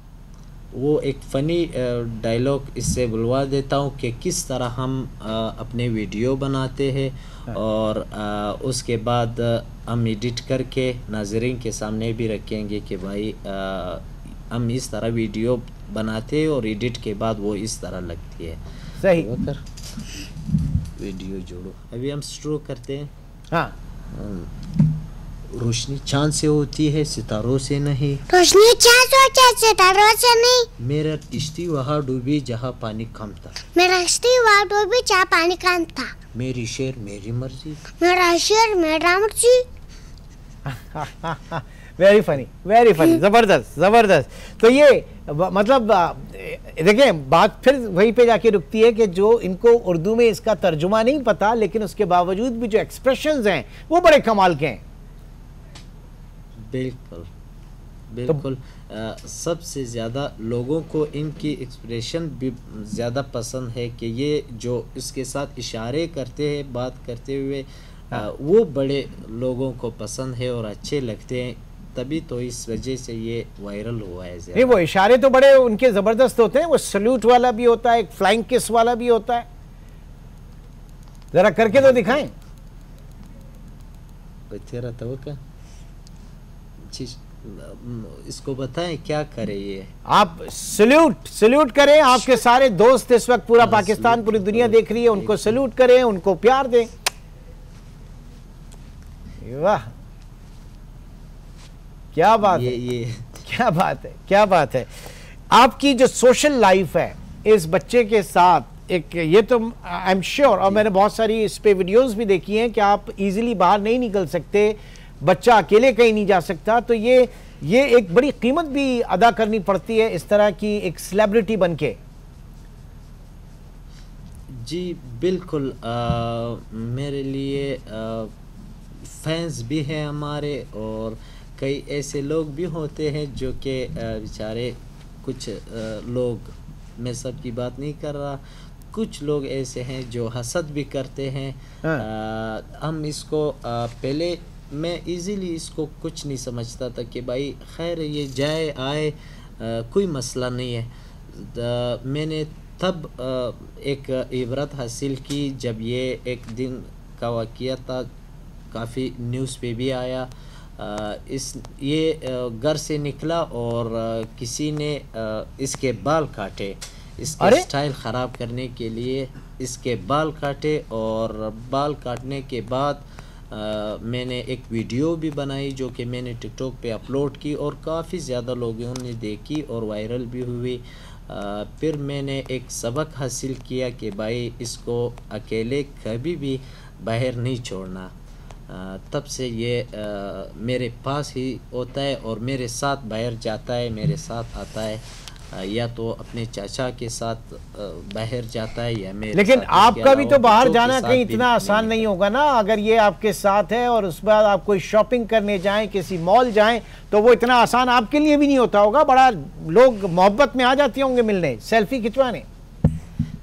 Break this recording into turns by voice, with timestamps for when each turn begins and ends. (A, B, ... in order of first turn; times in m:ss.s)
0:00.7-0:18.6 A
0:19.0-0:19.3 B
0:19.1-0:19.6 A
0:21.0-0:23.1 A
0:24.1-0:24.5 A
0:25.5-0:28.2 A
0:28.3-0:30.7 C
0:30.8-0:33.6 A
0:33.7-0:36.1 C
0:36.3-0:37.8 A
0:38.0-0:39.6 C
0:40.7-0:54.8 B
0:56.6-0:57.3 A
0:58.1-1:14.8 A
1:14.5-1:19.4 B
1:21.3-1:22.3 B
1:21.8-1:22.2 A
1:24.5-1:25.4 A
1:26.9-1:29.9 A
1:30.1-1:36.9 B
1:33.6-1:35.6 A
1:39.4-1:39.8 B
1:42.1-1:42.7 B
1:42.4-1:43.4 A
1:43.4-2:02.0 B
2:04.5-2:08.3 A
2:09.0-2:18.4 A
2:18.9-2:38.1 A
2:38.7-3:08.1 A
2:47.4-2:47.7 B
3:08.7-3:22.0 A
3:19.3-3:32.4 B